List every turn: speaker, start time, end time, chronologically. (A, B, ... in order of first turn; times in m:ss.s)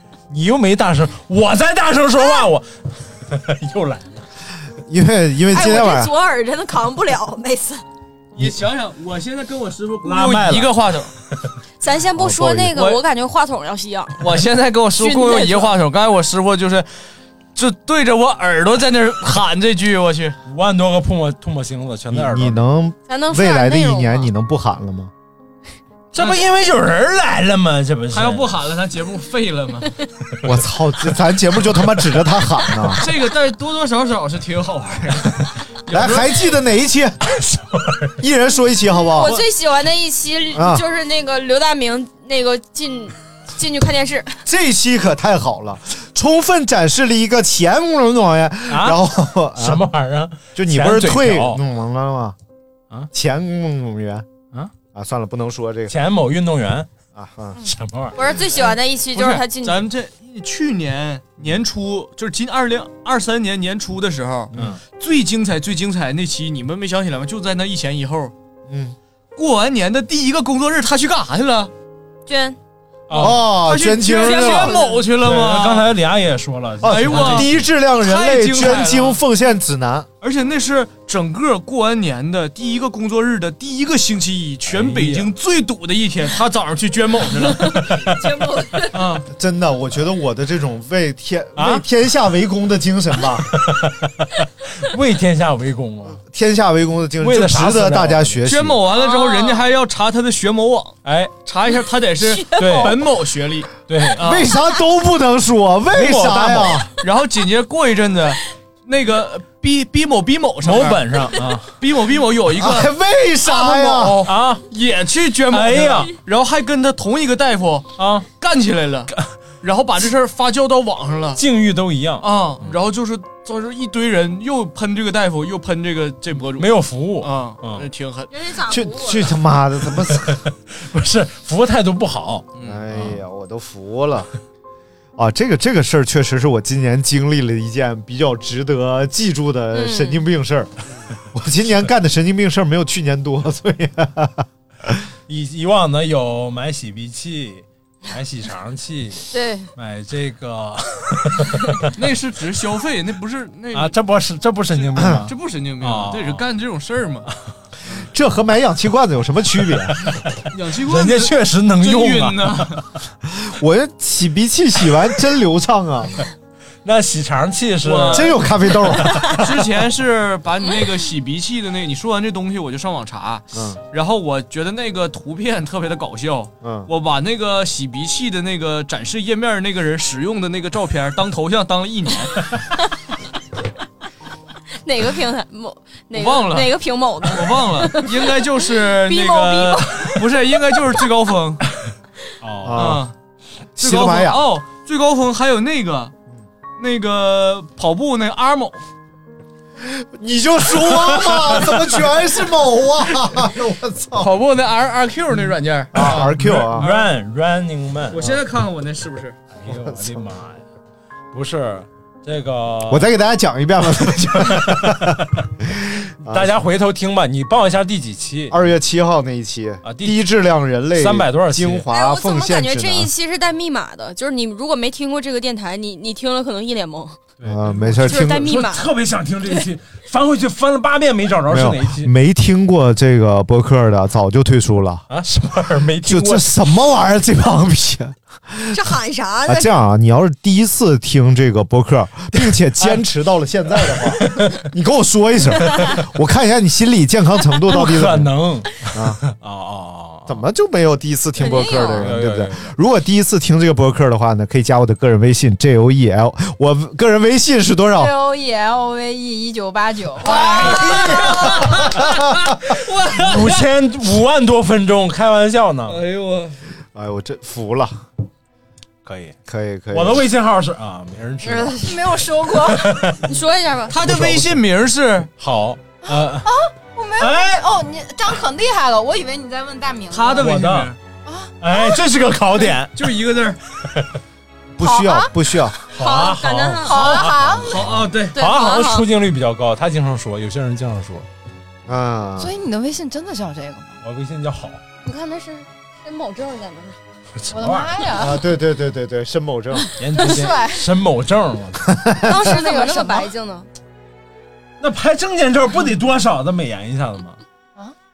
0:00.3-0:04.2 A
0:04.8-0:06.1 B
0:05.5-0:07.8 C
0:08.4-0:11.1 D
0:10.0-0:10.8 A
0:11.8-0:14.3 C
0:12.2-0:12.8 B
0:12.8-0:13.0 D
0:14.2-0:16.9 D
0:15.0-0:15.8 C
0:17.5-0:20.4 D
0:20.5-0:22.6 A
0:22.1-0:25.1 B
0:23.1-0:24.3 C
0:26.1-0:28.5 A
0:28.1-0:29.9 D
0:30.4-0:33.0 B
0:33.0-0:36.5 D
0:35.9-0:37.3 B
0:37.5-0:38.1 A
0:38.2-0:39.4 B
0:39.1-0:44.4 C
0:40.5-0:40.8 B
0:44.4-0:49.8 B
0:48.7-0:49.0 A
0:49.5-0:51.6 A
0:50.5-0:52.4 B
0:53.1-0:54.3 B
0:54.9-0:55.9 B
0:55.9-0:56.9 A
0:57.1-0:57.6 B
0:57.6-0:58.2 A
0:58.1-0:59.8 C
0:58.5-1:08.3 D
1:08.7-1:09.0 B
1:09.4-1:11.7 D
1:12.3-1:12.6 C
1:13.1-1:13.5 A
1:13.1-1:14.8 B
1:13.2-1:15.9 D
1:14.0-1:15.1 C
1:15.2-1:17.6 A
1:16.8-1:20.1 B
1:16.8-1:17.5 D
1:18.0-1:19.2 D
1:20.2-1:27.8 D
1:24.7-1:25.3 A
1:27.7-1:29.0 C
1:27.9-1:28.2 A
1:28.9-1:29.2 D
1:29.3-1:33.5 B
1:31.6-1:31.8 A
1:33.5-1:36.2 A
1:36.2-1:38.8 B
1:37.2-1:38.4 A
1:38.4-1:44.5 D
1:38.9-1:39.6 C
1:41.0-1:41.4 A
1:42.2-1:43.0 C
1:42.6-1:43.0 A
1:43.9-1:44.3 A
1:44.2-1:46.9 B
1:45.9-1:46.9 A
1:47.0-1:52.9 D
1:50.6-1:51.8 A
1:52.6-1:54.2 B
1:53.4-2:01.4 D
1:54.2-1:54.6 A
1:55.5-1:56.1 A
1:58.0-1:58.3 A
2:01.4-2:02.7 A
2:02.2-2:08.3 D
2:06.6-2:07.8 A
2:08.3-2:09.3 C
2:08.7-2:10.4 B
2:10.0-2:12.5 A
2:12.6-2:12.9 D
2:12.6-2:14.3 B
2:15.2-2:20.7 B
2:19.7-2:20.2 C
2:21.3-2:25.0 B
2:25.3-2:31.9 A
2:29.3-2:29.7 C
2:31.9-2:33.9 D
2:33.7-2:36.4 A
2:35.0-2:35.2 B
2:35.0-2:37.3 D
2:38.1-2:39.9 B
2:40.5-2:42.8 D
2:40.8-2:42.8 A
2:43.3-2:46.1 B
2:46.8-2:48.4 A
2:47.8-2:48.5 D
2:48.1-2:49.6 B
2:49.4-3:02.4 D
2:53.5-2:53.8 B
2:56.6-2:56.9 B
3:04.8-3:10.2 C
3:06.1-3:11.6 D
3:12.4-3:13.0 A
3:12.6-3:13.0 B
3:12.7-3:13.1 D
3:13.8-3:14.4 B
3:13.8-3:16.1 D
3:16.8-3:18.8 D
3:19.8-3:24.3 B
3:24.2-3:27.1 D
3:25.9-3:26.9 B
3:26.0-3:28.4 A
3:28.1-3:29.4 D
3:29.5-3:30.6 A
3:29.7-3:30.2 B
3:31.3-3:33.1 A
3:32.9-3:36.5 B
3:34.3-3:35.4 A
3:36.2-3:38.6 A
3:38.5-3:43.1 B
3:39.8-3:40.2 A
3:41.0-3:41.8 A
3:41.9-3:47.2 C
3:47.4-3:52.1 A
3:47.4-3:48.5 B
3:48.0-3:48.9 C
3:51.5-3:55.0 B
3:55.1-3:56.5 A
3:56.0-4:08.3 B
3:58.7-3:59.7 C
4:02.4-4:03.0 A
4:03.8-4:04.6 A
4:07.7-4:10.4 A
4:08.9-4:09.2 B
4:10.3-4:18.1 B
4:11.4-4:12.1 C
4:11.9-4:12.7 A
4:18.0-4:20.6 E
4:20.2-4:22.0 A
4:20.3-4:22.0 D
4:22.6-4:23.7 D
4:23.1-4:26.0 A
4:25.8-4:26.6 D
4:26.9-4:28.0 B
4:29.0-4:29.3 A
4:29.5-4:30.2 B
4:29.9-4:31.8 A
4:31.4-4:32.0 C
4:31.8-4:33.0 E
4:32.5-4:33.2 A
4:33.2-4:34.0 C
4:33.9-4:35.3 D
4:34.0-4:34.6 A
4:35.4-4:36.5 A
4:36.0-4:40.5 E
4:37.2-4:37.6 A
4:40.1-4:41.0 D
4:40.4-4:40.9 A
4:41.2-4:42.0 E
4:41.6-4:43.1 A
4:43.0-4:43.6 D
4:44.8-4:45.8 B
4:44.8-4:45.3 E
4:45.9-4:51.2 A
4:45.9-4:47.3 C
4:46.8-4:47.7 E
4:47.6-4:48.4 D
4:48.3-4:49.1 C
4:51.9-4:52.5 B
4:52.4-4:54.0 E
4:54.0-4:54.8 A
4:55.0-4:57.0 C
4:57.4-4:58.1 A
4:57.5-4:58.4 E
4:58.2-4:59.9 B
5:00.0-5:01.9 A
5:00.2-5:00.8 E
5:01.9-5:02.3 B
5:02.2-5:03.7 C
5:02.4-5:03.3 E
5:04.8-5:07.4 A